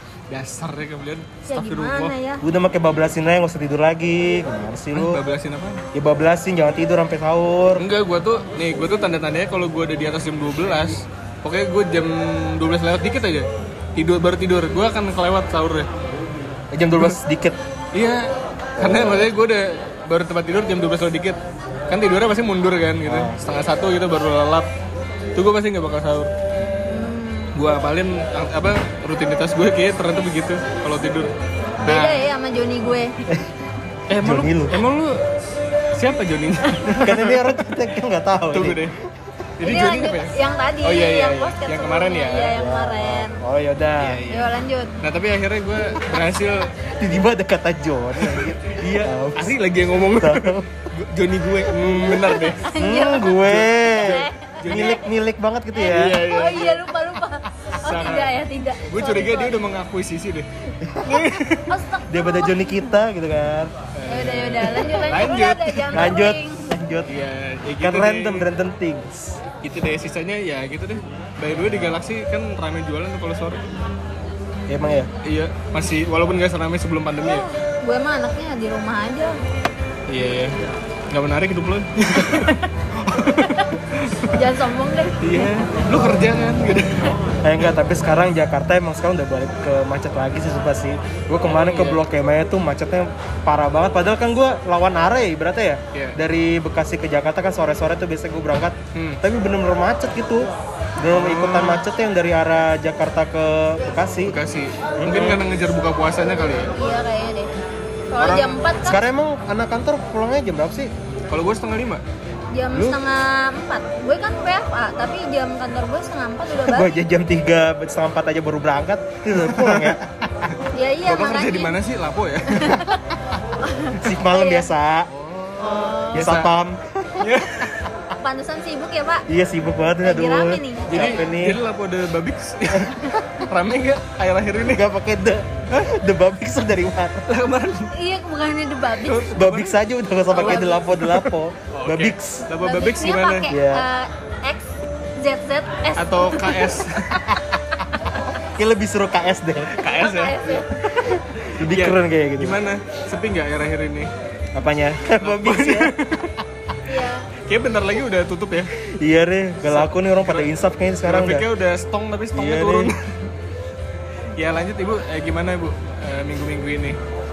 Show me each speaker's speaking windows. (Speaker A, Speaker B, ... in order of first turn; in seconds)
Speaker A: 0.3-2.1, 4.9-5.8, 7.8-15.9, 17.9-18.3, 18.8-21.4, 21.9-24.7, 25.4-26.3, 27.6-31.3, 31.9-32.2, 34.1-35.2, 36.0-37.6, 38.5-39.0, 39.6-42.6, 44.0-46.7, 48.2-52.7, 53.4-55.0, 55.9-56.9, 57.8-60.5, 61.0-61.7, 64.0-66.1, 67.1-68.5, 69.6-73.6, 75.2-77.4, 80.1-80.5, 81.1-84.4, 85.2-87.1, 91.5-92.0, 99.0-99.2, 101.1-101.8, 104.3-106.7, 108.2-108.6, 111.3-112.0, 119.4-122.9, 125.1-126.5, 127.2-127.8, 130.9-134.8, 137.3-137.9, 139.0-139.8, 140.3-143.5, 146.0-147.3, 149.8-150.7, 151.5-154.1, 155.2-156.3, 157.5-158.7, 159.6-160.5, 161.1-163.3, 164.4-167.0
Speaker B: 1.5-2.4, 26.9-27.6, 31.8-33.1, 39.6-43.4, 44.3-44.9, 51.8-55.1, 55.8-59.6, 61.1-62.8, 64.1-66.7, 77.2-79.3, 83.3-83.7, 84.3-85.5, 106.7-107.5, 108.1-109.0, 112.5-116.9, 120.7-121.7, 122.5-123.0, 123.6-124.7, 125.6-126.3, 128.2-129.3, 130.0-131.2, 137.9-139.3, 140.3-140.8, 142.6-146.8, 149.9-151.2, 156.8-157.3
Speaker C: 2.4-5.2, 5.9-7.8, 16.7-17.6, 18.8-19.3, 23.1-23.4, 34.2-34.8, 37.0-39.0, 42.5-44.2, 47.0-49.6, 50.2-50.9, 52.8-56.2, 60.8-61.2, 62.1-63.7, 65.9-67.1, 67.8-69.4, 74.7-75.1, 87.4-104.3, 105.0-105.4, 108.8-110.9, 116.7-120.0, 124.0-125.1, 126.1-127.3, 129.3-131.6, 134.6-137.3, 139.3-142.5, 143.5-143.8, 148.4-149.7, 151.0-152.6, 154.6-155.9, 159.0-161.4, 162.3-162.9